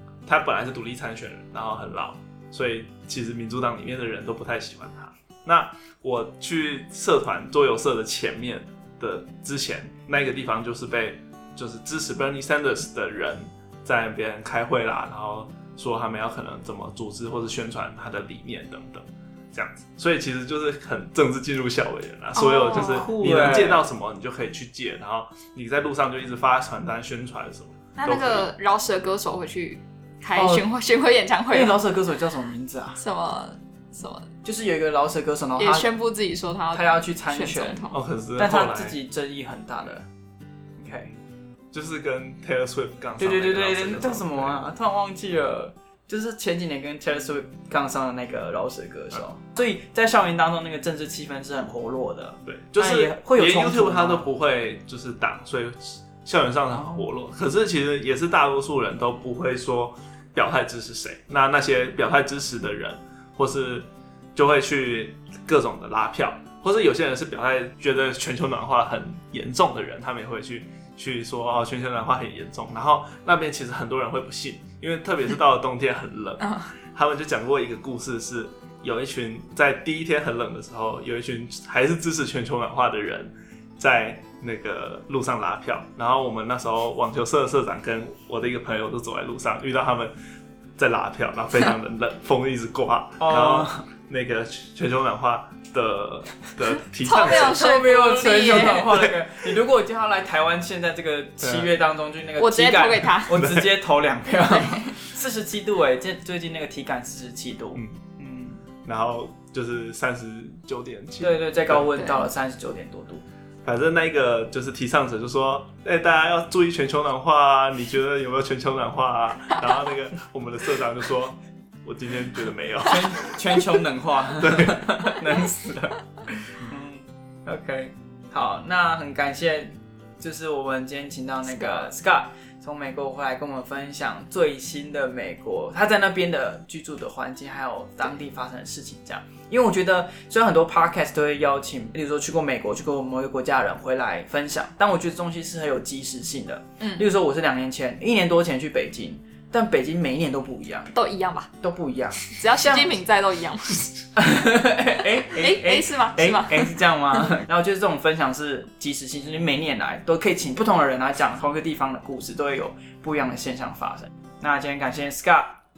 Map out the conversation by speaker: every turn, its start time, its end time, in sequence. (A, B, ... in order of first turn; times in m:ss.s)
0:00.3-0:28.5 A
0:22.4-0:23.1 B
0:22.7-0:23.8 C
0:28.0-0:31.8 B
0:30.4-0:30.7 C
0:31.5-0:33.0 C
0:33.0-0:34.3 B
0:34.4-0:35.9 C
0:35.6-0:38.0 B
0:36.7-0:40.1 C
0:37.9-0:39.0 A
0:40.8-0:41.2 C
0:41.7-0:44.7 A
0:43.2-0:54.3 C
0:52.5-1:30.1 A
1:30.8-1:37.6 A
1:33.2-1:33.8 C
1:37.0-1:39.0 B
1:37.2-1:48.6 C
1:41.4-1:41.7 A
1:42.4-1:43.4 B
1:43.3-1:43.7 A
1:44.4-1:45.0 B
1:47.8-1:48.0 A
1:48.8-1:51.9 A
1:51.2-1:53.2 C
1:51.9-1:52.3 B
1:53.6-2:03.6 A
2:02.8-2:30.9 C
2:04.4-2:04.8 A
2:26.8-2:27.1 B
2:30.9-2:31.5 B
2:31.6-2:33.0 C
2:32.3-2:33.9 B
2:34.2-2:45.6 C
2:35.3-2:37.3 B